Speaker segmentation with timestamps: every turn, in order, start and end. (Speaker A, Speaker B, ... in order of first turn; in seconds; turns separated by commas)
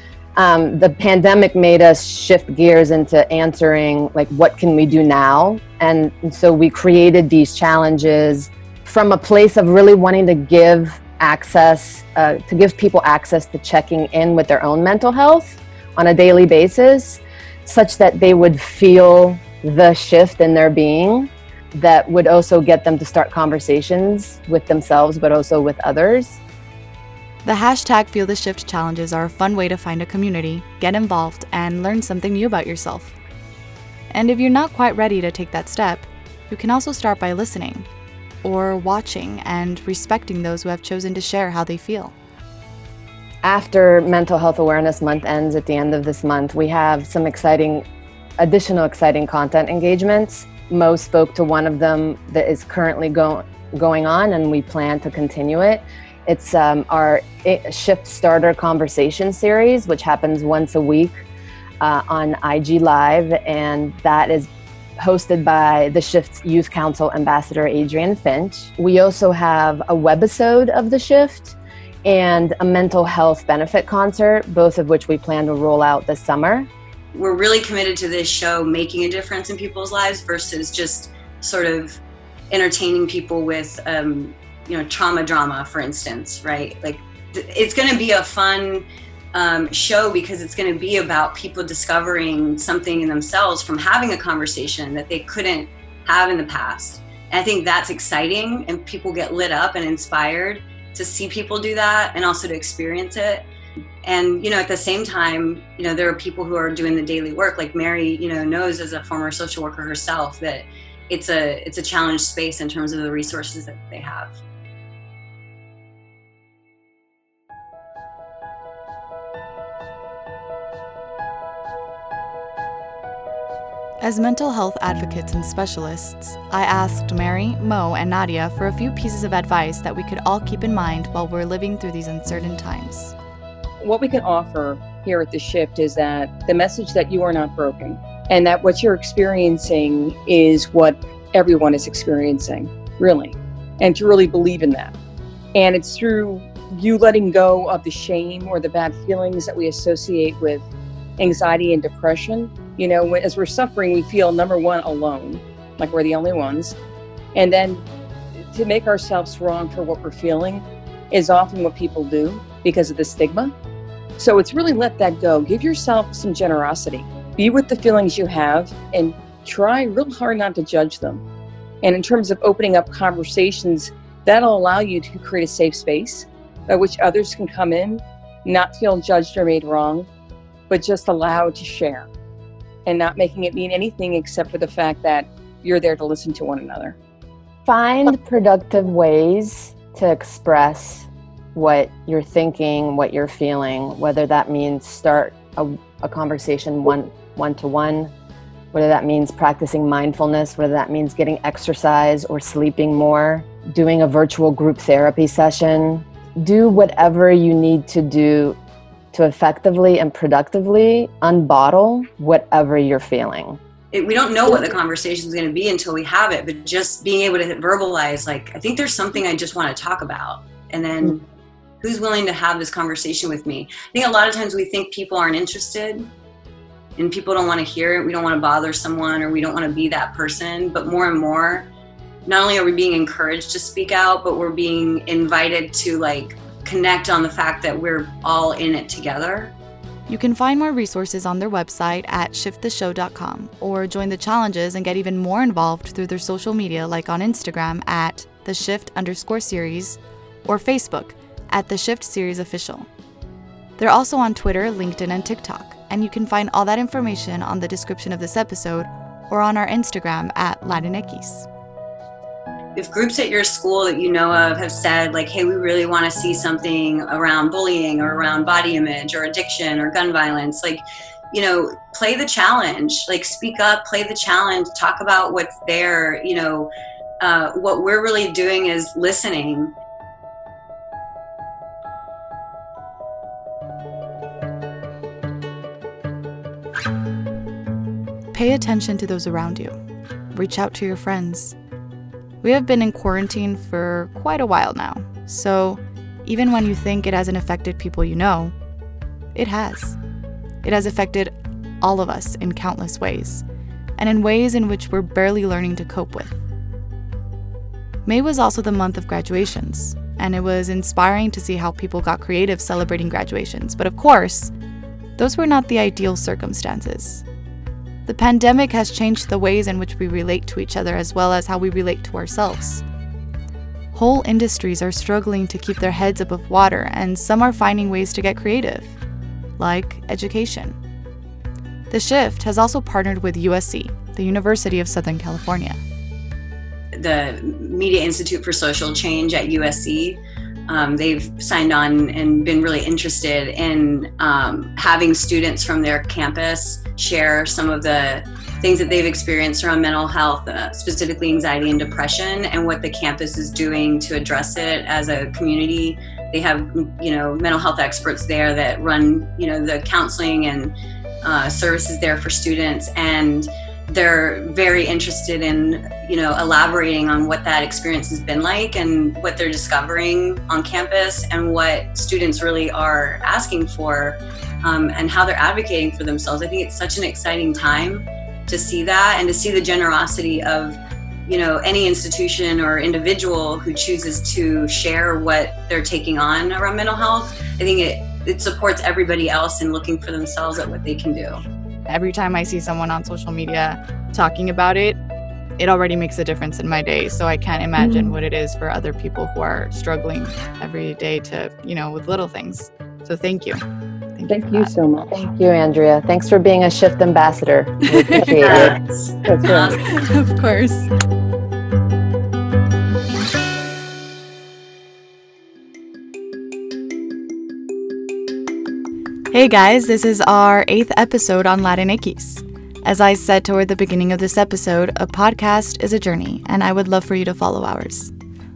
Speaker A: 0.3-26.4, Speaker B: 27.4-33.1, Speaker B: 34.1-37.9, Speaker B: 38.4-42.1, Speaker A: 43.4-47.8, Speaker A: 48.4-61.2, Speaker A: 61.8-76.7, Speaker C: 77.1-103.4, Speaker C: 104.0-114.4, Speaker B: 124.0-133.1, Speaker D: 133.8-144.9, Speaker D: 145.5-150.7, Speaker D: 151.2-156.8, Speaker D: 157.3-157.8, Speaker D: 158.5-163.5, Speaker D: 164.2-171.2, Speaker D: 171.8-180.1, Speaker D: 180.7-182.1, Speaker D: 182.8-186.9, Speaker A: 187.7-198.1, Speaker A: 198.7-208.6, Speaker A: 209.1-213.6, Speaker C: 213.9-221.2, Speaker C: 221.8-226.1, Speaker C: 227.0-231.7, Speaker C: 232.2-239.5, Speaker B: 240.1-252.9, Speaker B: 253.8-261.5, Speaker C: 262.8-279.7, Speaker B: 288.3-289.8, Speaker B: 290.3-291.6, Speaker B: 292.4-298.5, Speaker B: 299.3-300.0, Speaker B: 300.6-303.4, Speaker B: 304.0-306.4, Speaker B: 308.0-314.5, Speaker B: 315.2-317.2, Speaker B: 318.1-322.8, Speaker B: 323.9-329.0, Speaker B: 329.6-330.8, Speaker B: 331.9-335.8, Speaker C: 336.9-391.4, Speaker B: 391.9-395.0, Speaker B: 395.6-403.6, Speaker D: 397.8-398.1, Speaker B: 404.1-404.7, Speaker D: 404.3-405.2, Speaker A: 405.1-408.8, Speaker B: 407.9-408.7, Speaker C: 408.4-409.9, Speaker B: 409.5-410.9, Speaker B: 419.3-428.1